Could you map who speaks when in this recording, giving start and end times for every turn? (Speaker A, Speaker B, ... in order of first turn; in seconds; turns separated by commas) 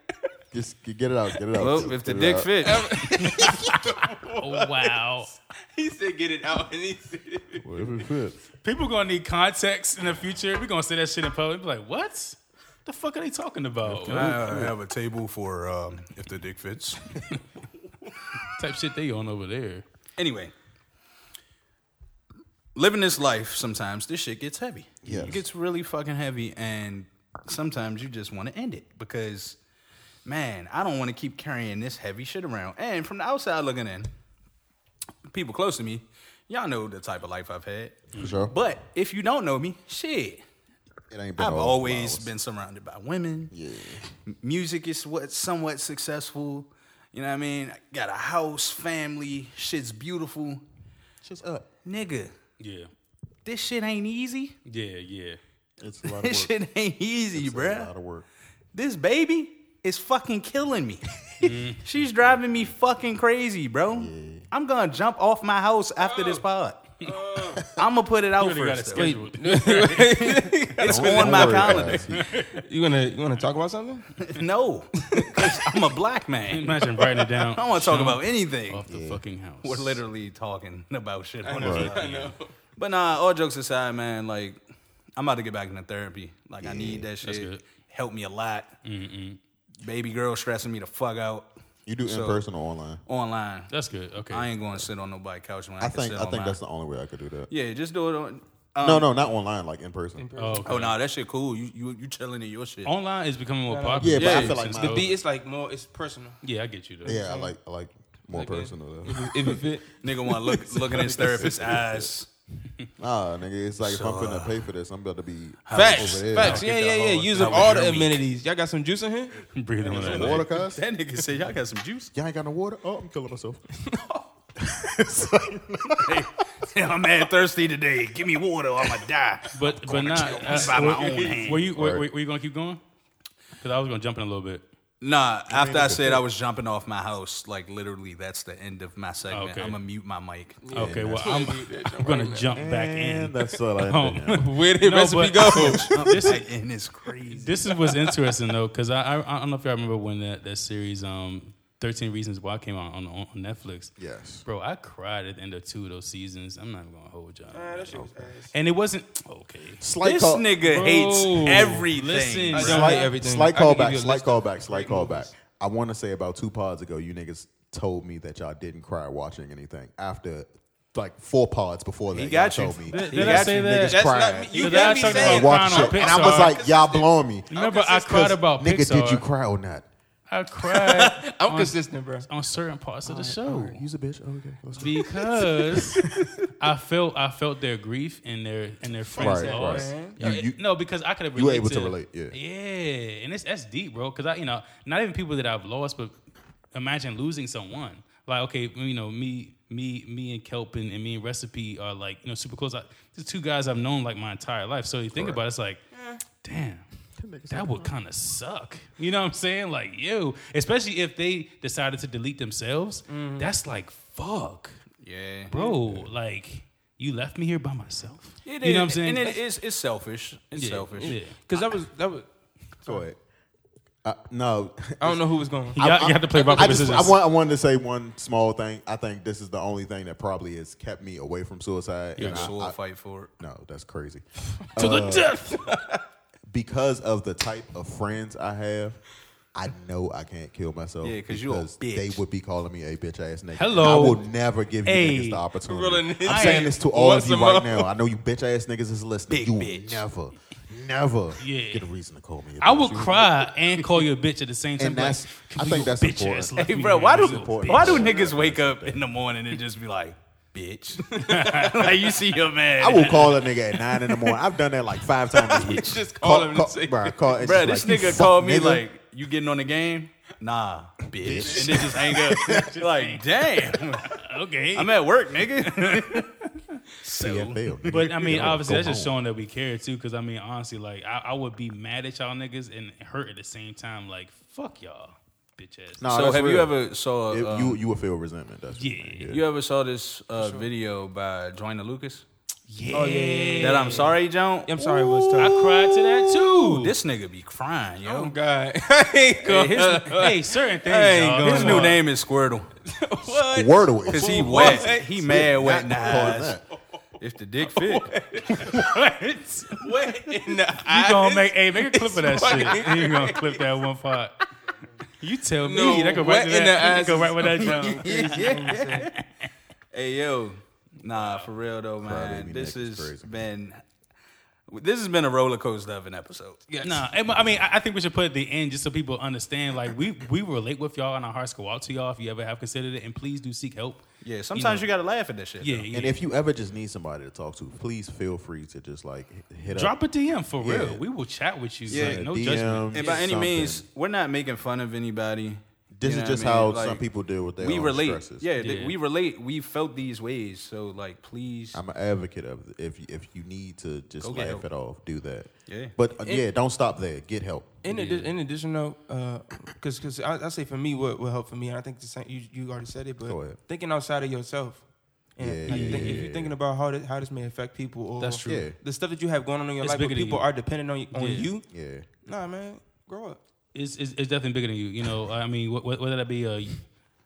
Speaker A: 0.5-2.9, Speaker B: 1.6-2.9, Speaker C: 2.6-7.7, Speaker D: 4.4-5.3, Speaker A: 7.6-8.4, Speaker D: 8.6-14.7, Speaker A: 13.9-14.7, Speaker B: 14.1-17.0, Speaker D: 18.5-19.9, Speaker B: 20.2-20.5, Speaker B: 22.8-29.6, Speaker A: 25.0-25.4, Speaker B: 30.2-34.1, Speaker B: 35.3-40.4, Speaker A: 38.1-38.5, Speaker A: 41.1-42.3, Speaker B: 41.4-43.5, Speaker A: 43.5-44.0, Speaker B: 44.3-50.6, Speaker A: 51.2-51.7, Speaker B: 51.9-52.3, Speaker D: 52.6-52.9, Speaker B: 53.5-54.5, Speaker D: 54.7-55.4, Speaker A: 55.8-56.5, Speaker B: 56.1-57.9, Speaker A: 57.3-58.3, Speaker B: 58.7-66.8, Speaker D: 61.4-62.1, Speaker A: 63.9-64.5, Speaker C: 66.0-66.4, Speaker C: 67.0-67.6, Speaker B: 67.8-69.1, Speaker D: 68.4-70.5, Speaker C: 69.0-74.2, Speaker B: 70.8-72.1, Speaker A: 70.8-72.3, Speaker D: 72.2-72.5, Speaker B: 74.2-78.8, Speaker C: 75.1-75.6, Speaker D: 76.5-80.0, Speaker A: 78.8-79.2, Speaker B: 79.6-84.6, Speaker C: 81.4-82.5, Speaker A: 81.6-82.0, Speaker B: 85.2-88.8, Speaker A: 86.6-87.1, Speaker D: 87.2-87.6, Speaker D: 88.8-89.4, Speaker B: 89.8-91.5, Speaker A: 91.9-93.0, Speaker B: 92.0-92.4, Speaker B: 93.1-93.7, Speaker D: 93.7-94.5, Speaker B: 94.3-96.6, Speaker A: 95.8-97.5, Speaker B: 97.5-99.1, Speaker A: 98.8-100.3, Speaker C: 100.2-100.8, Speaker D: 100.4-101.0, Speaker B: 100.7-102.9, Speaker D: 102.8-105.2, Speaker C: 103.7-106.4, Speaker A: 104.0-105.1, Speaker B: 104.2-104.5, Speaker D: 106.4-107.2, Speaker C: 107.0-107.5, Speaker A: 107.0-109.6, Speaker C: 108.3-111.7, Speaker B: 110.0-112.3, Speaker A: 111.0-112.1, Speaker A: 113.0-116.6, Speaker B: 113.8-114.6, Speaker B: 115.7-118.2, Speaker C: 115.7-119.4, Speaker D: 119.5-120.5, Speaker B: 119.8-122.1, Speaker A: 119.9-120.8, Speaker A: 122.1-123.7, Speaker A: 124.6-126.2, Speaker B: 126.0-131.7, Speaker D: 129.5-132.8, Speaker C: 130.4-131.4, Speaker A: 131.7-132.1, Speaker D: 133.6-134.6, Speaker B: 135.0-140.6, Speaker A: 135.5-136.3, Speaker D: 139.3-139.8, Speaker C: 140.6-142.6, Speaker D: 140.7-146.4, Speaker A: 140.7-141.5, Speaker A: 142.5-144.4, Speaker C: 144.3-146.0, Speaker B: 145.6-147.5, Speaker D: 147.4-153.9, Speaker C: 147.7-148.3, Speaker A: 154.0-154.4, Speaker D: 154.5-159.8, Speaker C: 157.5-158.5, Speaker A: 159.8-160.5, Speaker B: 160.0-162.8, Speaker D: 160.7-163.1, Speaker C: 160.7-161.8, Speaker C: 162.5-165.3, Speaker A: 162.7-179.9, Speaker B: 172.1-173.7, Speaker D: 172.9-176.6, Speaker C: 173.0-177.1, Speaker D: 177.5-179.2, Speaker C: 177.6-178.3, Speaker D: 180.3-183.8, Speaker B: 180.8-181.2, Speaker C: 181.2-182.3, Speaker A: 183.1-186.1, Speaker D: 184.8-186.0, Speaker D: 186.6-196.1, Speaker C: 189.0-190.4, Speaker A: 189.2-190.6, Speaker A: 191.3-192.3, Speaker D: 196.7-205.8, Speaker A: 205.1-205.4, Speaker C: 205.9-206.2, Speaker D: 206.4-206.8, Speaker A: 207.2-207.9, Speaker D: 207.5-214.8, Speaker C: 213.1-213.5, Speaker B: 215.0-215.5, Speaker D: 215.5-219.4, Speaker C: 215.5-215.8, Speaker B: 218.4-221.2, Speaker D: 220.6-221.4, Speaker C: 221.0-222.3, Speaker A: 222.8-223.2, Speaker A: 224.0-232.8, Speaker C: 225.0-225.8, Speaker D: 225.8-227.2, Speaker D: 232.2-232.5, Speaker B: 232.2-233.3, Speaker A: 233.4-235.4, Speaker D: 234.8-235.7, Speaker A: 236.5-239.0, Speaker A: 239.5-253.7, Speaker B: 241.0-242.2, Speaker D: 243.6-244.2, Speaker D: 244.8-245.4, Speaker C: 245.7-247.9, Speaker D: 246.2-246.8, Speaker B: 249.3-250.1, Speaker D: 251.4-251.9, Speaker D: 252.6-258.1, Speaker A: 254.8-259.0, Speaker B: 256.6-263.4, Speaker C: 257.9-258.3, Speaker C: 261.1-261.7, Speaker D: 261.3-261.9, Speaker A: 262.8-268.8, Speaker C: 265.5-267.7, Speaker B: 267.4-274.2, Speaker A: 271.2-272.7, Speaker D: 271.5-276.5, Speaker B: 274.8-276.3, Speaker B: 277.0-277.8, Speaker A: 277.1-279.1, Speaker D: 277.9-286.0, Speaker A: 286.0-286.8, Speaker B: 286.1-287.8, Speaker A: 287.3-289.4, Speaker D: 288.8-289.3, Speaker B: 289.3-292.3, Speaker C: 290.4-290.7, Speaker D: 292.7-294.2, Speaker C: 292.9-294.1, Speaker B: 293.6-295.8, Speaker C: 294.7-296.0, Speaker D: 295.4-296.9, Speaker B: 296.6-298.3, Speaker C: 298.0-302.0, Speaker B: 299.4-300.2, Speaker D: 300.1-302.0, Speaker B: 301.4-302.7, Speaker C: 302.9-306.4, Speaker A: 303.3-306.6, Speaker B: 304.1-306.6, Speaker B: 307.2-308.1, Speaker C: 307.6-308.9, Speaker D: 308.6-309.9, Speaker C: 309.8-313.7, Speaker D: 310.9-314.4, Speaker D: 315.2-319.5, Speaker C: 315.6-319.1, Speaker B: 317.7-319.1, Speaker B: 319.9-323.8, Speaker D: 321.1-321.5, Speaker A: 322.0-323.5, Speaker B: 324.7-326.6, Speaker C: 326.7-327.1, Speaker D: 326.8-334.0, Speaker A: 327.3-327.7, Speaker B: 334.2-335.9, Speaker D: 334.5-334.9, Speaker D: 335.6-336.2, Speaker A: 335.9-340.0, Speaker D: 339.7-342.9, Speaker A: 340.6-341.0, Speaker A: 341.9-343.8, Speaker B: 341.9-342.2, Speaker B: 342.9-347.0, Speaker A: 345.9-348.5, Speaker B: 347.6-351.8, Speaker D: 348.6-349.0, Speaker A: 351.7-357.7, Speaker B: 354.2-354.6, Speaker B: 355.7-355.9, Speaker C: 357.8-371.7, Speaker D: 357.9-358.3, Speaker A: 363.2-363.6, Speaker A: 365.4-366.6, Speaker D: 365.7-366.3, Speaker D: 368.2-368.7, Speaker A: 368.4-368.8, Speaker D: 369.8-370.5, Speaker D: 371.1-371.5, Speaker A: 371.7-372.1, Speaker C: 372.2-373.4, Speaker D: 373.7-376.9